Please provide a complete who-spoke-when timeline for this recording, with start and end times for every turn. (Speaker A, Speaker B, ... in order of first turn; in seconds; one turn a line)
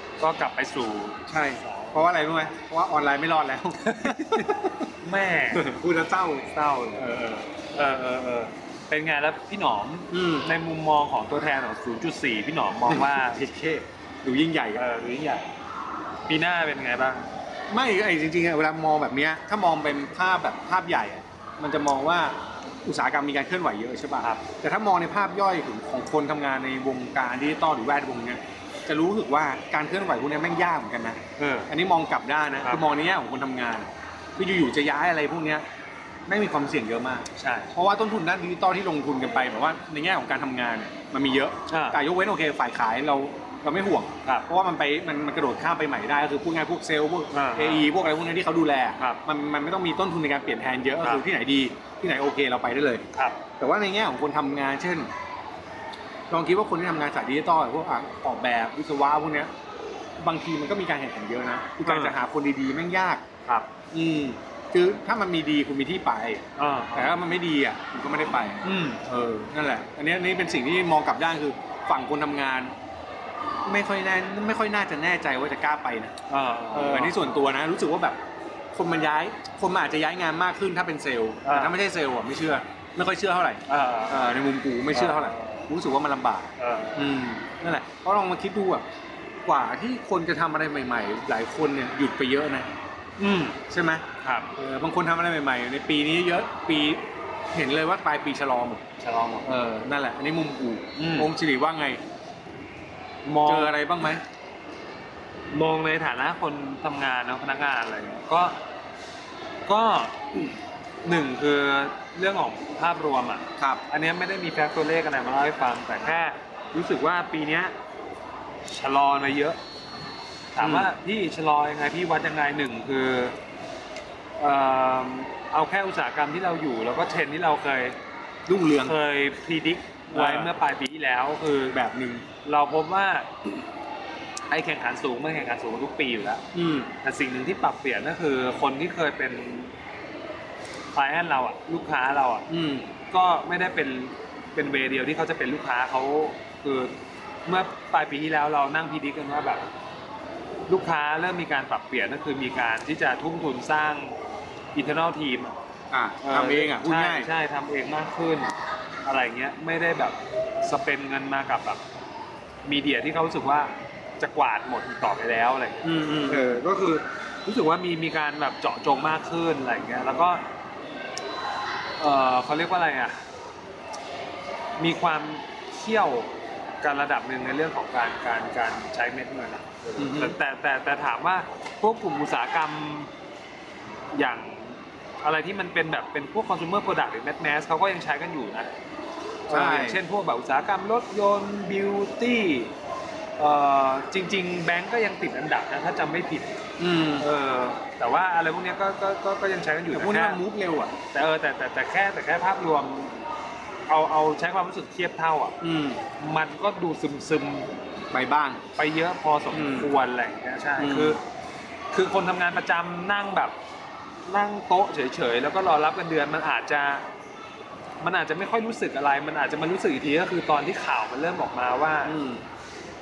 Speaker A: 0.2-2.1
Speaker B: 1.3-4.9
Speaker A: 3.8-5.7
Speaker B: 5.5-7.5
Speaker A: 6.5-7.1
Speaker A: 7.7-13.4
Speaker B: 10.1-10.5
Speaker B: 12.9-14.8
Speaker A: 14.7-15.4
Speaker A: 16.3-17.2
Speaker B: 17.7-35.6
Speaker A: 31.4-31.7
Speaker B: 36.2-53.0
Speaker A: 37.3-37.7
Speaker A: 41.7-42.0
Speaker A: 47.3-47.9
Speaker A: 53.1-53.4
Speaker B: 53.6-55.1
Speaker B: 56.3-59.5
Speaker B: 60.2-63.2
Speaker A: 61.8-62.2
Speaker A: 63.4-63.7
Speaker B: 63.9-72.7
Speaker A: 66.6-67.2
Speaker A: 68.6-69.0
Speaker B: 73.6-76.1
Speaker A: 76.3-77.2
Speaker B: 76.7-78.2
Speaker B: 78.7-88.8
Speaker A: 81.4-81.8
Speaker A: 83.7-84.3
Speaker A: 84.9-85.6
Speaker A: 86.6-87.0
Speaker B: 89.4-92.7
Speaker A: 93.2-93.6
Speaker B: 93.7-98.8
Speaker A: 94.2-94.5
Speaker A: 99.0-99.5
Speaker B: 99.4-102.0
Speaker A: 101.0-101.3
Speaker A: 103.2-103.7
Speaker B: 103.5-104.2
Speaker A: 105.5-108.6
Speaker A: 109.7-117.7
Speaker B: 113.6-113.8
Speaker A: 118.7-119.6
Speaker A: 120.5-123.3
Speaker B: 120.6-120.9
Speaker A: 124.4-128.0
Speaker B: 128.5-128.9
Speaker A: 128.8-131.8
Speaker B: 130.1-130.5
Speaker B: 131.7-132.2
Speaker A: 132.4-133.6
Speaker A: 134.5-136.4
Speaker B: 136.5-136.9
Speaker A: 137.0-139.7
Speaker A: 140.9-142.5
Speaker B: 142.5-142.9
Speaker A: 143.1-149.7
Speaker A: 150.7-154.2
Speaker A: 154.7-155.5
Speaker B: 155.9-157.3
Speaker A: 156.2-158.5
Speaker A: 159.0-161.8
Speaker A: 162.7-170.4
Speaker B: 165.8-166.6
Speaker A: 172.0-173.2
Speaker A: 174.8-183.1
Speaker B: 180.0-180.3
Speaker A: 184.1-188.7
Speaker A: 189.5-192.7
Speaker B: 189.5-190.0
Speaker A: 193.4-196.6
Speaker B: 196.8-197.3
Speaker A: 197.2-200.4
Speaker B: 199.9-200.9
Speaker A: 201.1-203.1
Speaker A: 203.9-205.6
Speaker B: 205.6-206.0
Speaker A: 206.2-207.7
Speaker B: 208.1-208.6
Speaker A: 208.8-211.2
Speaker B: 209.5-209.9
Speaker B: 210.8-211.2
Speaker A: 211.9-213.6
Speaker A: 214.2-217.1
Speaker A: 218.0-222.2
Speaker B: 222.0-222.4